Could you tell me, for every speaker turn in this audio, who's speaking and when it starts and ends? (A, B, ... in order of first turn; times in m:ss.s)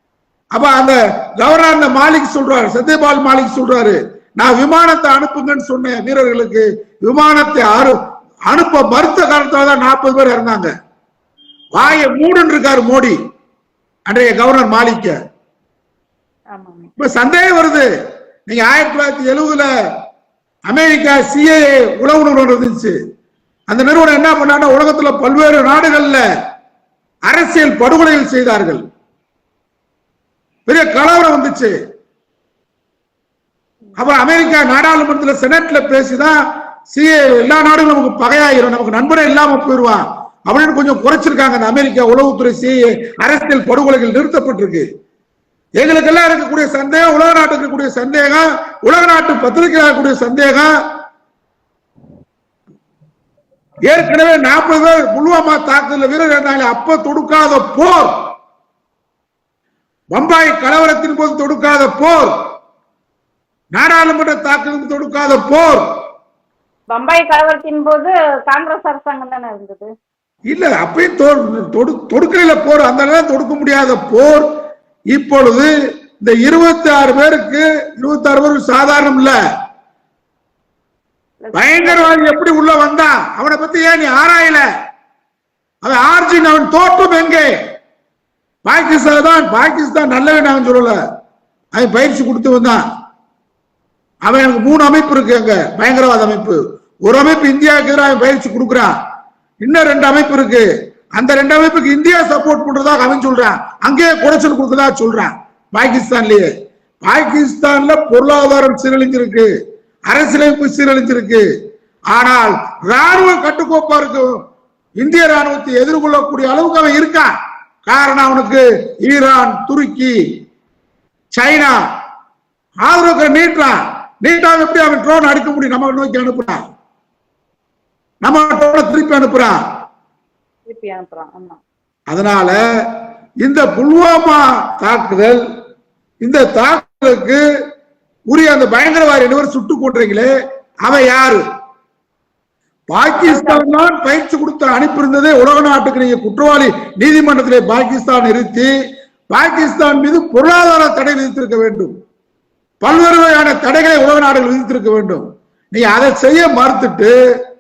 0:00.5-0:08.0 A
0:08.5-0:10.7 A
0:11.7-0:13.2 A
0:11.8-0:12.1 B
0:14.1-0:15.2 A
0:16.5-0:16.9 B
0:17.0-0:17.9 A
0:18.5-0:19.7 A
0:20.7-0:23.0 A
0:23.7-0:26.2 A
0:27.3-0:28.8 A
0:30.7-0:31.7 A
0:34.0-0:36.4 A
0:36.9-0:44.8 A
0:45.8-0:50.7 A
0:53.9-0:58.1 A
1:00.1-1:02.3 A
1:03.7-1:05.8 A
1:06.9-1:09.9 B
1:10.5-1:14.5 A
1:15.1-1:19.4 A
1:21.4-1:22.2 B
1:21.5-1:24.7 A
1:25.8-1:27.5 A
1:28.6-1:31.0 A
1:31.8-1:32.8 A
1:34.2-1:38.9 A
1:39.6-1:46.5 A
1:47.0-1:49.5 A
1:50.1-1:51.4 A
1:52.1-1:54.4 A
1:55.0-1:57.3 A
1:57.9-2:00.1 A
2:01.4-2:01.8 A
2:02.8-2:06.6 A
2:08.2-2:09.6 A
2:10.7-2:11.6 B
2:12.1-2:12.6 A
2:13.4-2:15.4 A
2:16.2-2:17.4 A
2:18.3-2:20.3 A
2:20.8-2:21.4 A
2:22.9-2:28.7 A
2:23.1-2:23.7 B
2:29.3-2:31.9 A
2:32.8-2:37.1 A